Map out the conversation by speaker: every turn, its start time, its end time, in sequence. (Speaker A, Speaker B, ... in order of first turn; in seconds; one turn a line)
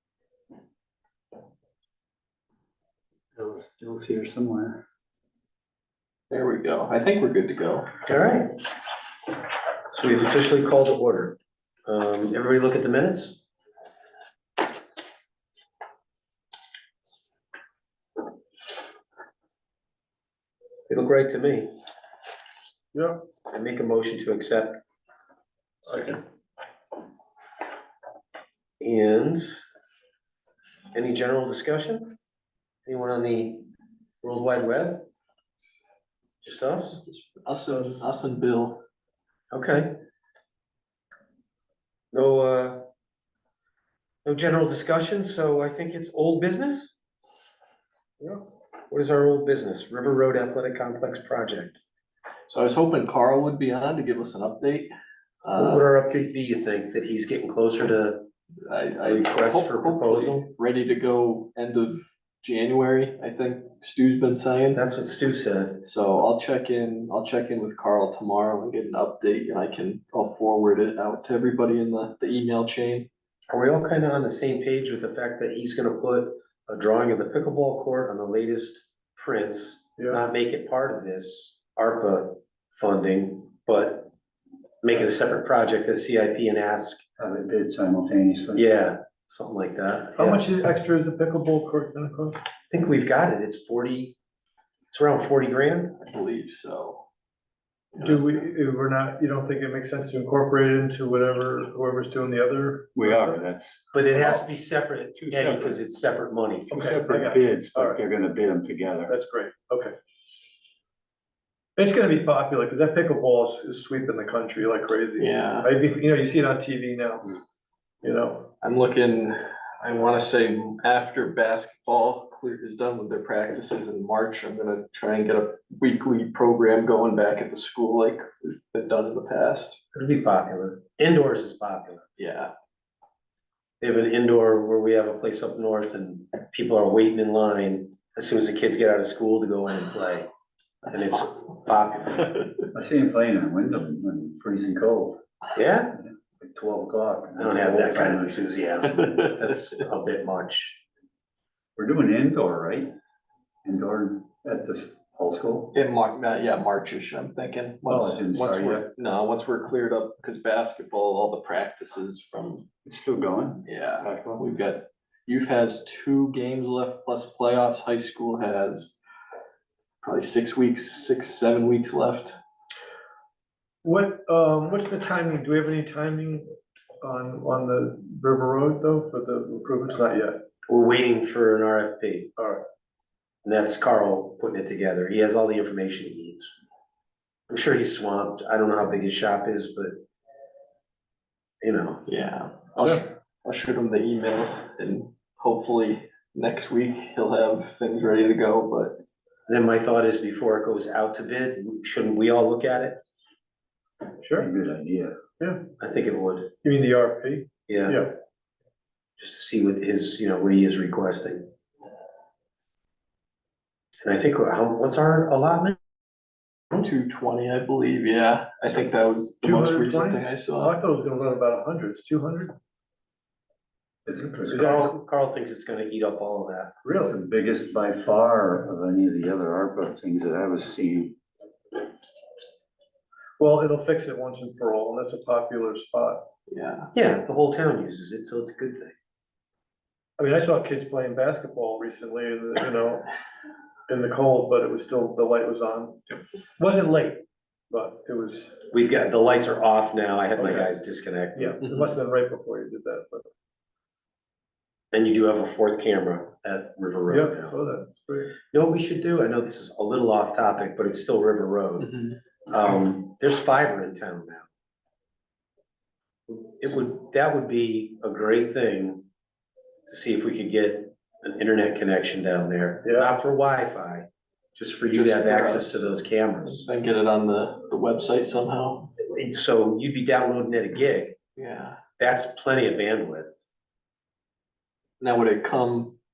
Speaker A: 3.4-4.8
Speaker B: 6.3-7.9
Speaker C: 8.1-8.5
Speaker C: 9.9-13.4
Speaker C: 20.9-21.7
Speaker D: 22.9-23.2
Speaker C: 23.5-24.8
Speaker D: 25.9-26.2
Speaker C: 28.8-29.5
Speaker C: 30.9-32.1
Speaker C: 32.9-33.7
Speaker C: 34.2-35.1
Speaker C: 36.4-37.0
Speaker B: 37.1-38.8
Speaker C: 39.5-39.9
Speaker C: 42.1-42.9
Speaker C: 44.2-46.9
Speaker C: 48.9-51.8
Speaker B: 52.5-54.9
Speaker B: 55.4-55.9
Speaker C: 55.5-58.2
Speaker B: 58.6-64.8
Speaker C: 59.0-60.4
Speaker C: 64.7-65.8
Speaker B: 65.8-73.1
Speaker C: 73.5-84.1
Speaker C: 84.8-87.0
Speaker A: 87.2-88.6
Speaker C: 88.5-90.6
Speaker D: 90.2-92.4
Speaker C: 92.7-94.2
Speaker C: 94.9-96.0
Speaker B: 96.0-97.0
Speaker B: 97.9-98.5
Speaker D: 98.0-103.4
Speaker A: 103.0-103.8
Speaker C: 103.9-106.7
Speaker D: 105.3-105.7
Speaker D: 106.7-108.0
Speaker A: 106.7-109.1
Speaker D: 109.1-109.9
Speaker D: 111.8-117.3
Speaker B: 115.2-115.7
Speaker D: 118.0-118.5
Speaker B: 118.6-129.8
Speaker C: 129.9-132.0
Speaker B: 132.2-132.5
Speaker C: 133.8-140.3
Speaker C: 140.9-142.4
Speaker A: 142.7-145.2
Speaker C: 145.5-146.0
Speaker A: 145.9-148.4
Speaker C: 147.4-150.8
Speaker A: 151.8-152.9
Speaker A: 153.6-155.7
Speaker B: 155.7-162.7
Speaker A: 157.9-158.9
Speaker A: 162.8-164.4
Speaker B: 163.6-168.9
Speaker B: 170.0-172.3
Speaker D: 173.8-176.4
Speaker D: 177.0-180.4
Speaker C: 180.7-182.3
Speaker D: 182.4-182.6
Speaker C: 183.4-186.5
Speaker C: 187.5-190.0
Speaker C: 191.6-192.0
Speaker B: 192.0-199.0
Speaker C: 199.5-203.0
Speaker D: 204.2-204.5
Speaker A: 204.4-205.2
Speaker C: 205.8-206.5
Speaker D: 206.6-208.1
Speaker C: 207.7-208.1
Speaker C: 209.2-211.4
Speaker C: 214.0-215.8
Speaker B: 216.7-220.7
Speaker D: 219.4-222.5
Speaker A: 224.1-224.6
Speaker C: 224.5-226.7
Speaker D: 224.5-224.9
Speaker D: 226.8-227.2
Speaker A: 227.0-231.2
Speaker D: 233.4-236.2
Speaker B: 236.5-236.9
Speaker C: 236.9-238.9
Speaker D: 240.2-243.1
Speaker D: 243.9-246.0
Speaker D: 246.6-248.6
Speaker C: 248.7-251.6
Speaker D: 250.3-250.7
Speaker D: 251.3-253.2
Speaker C: 254.9-257.6
Speaker D: 257.1-258.3
Speaker C: 258.5-261.9
Speaker B: 261.8-262.1
Speaker C: 262.5-264.5
Speaker C: 266.3-269.1
Speaker C: 269.9-276.7
Speaker D: 272.8-273.2
Speaker B: 274.9-275.9
Speaker B: 276.4-278.9
Speaker C: 279.0-281.1
Speaker B: 281.4-281.8
Speaker C: 282.0-283.4
Speaker B: 285.0-285.9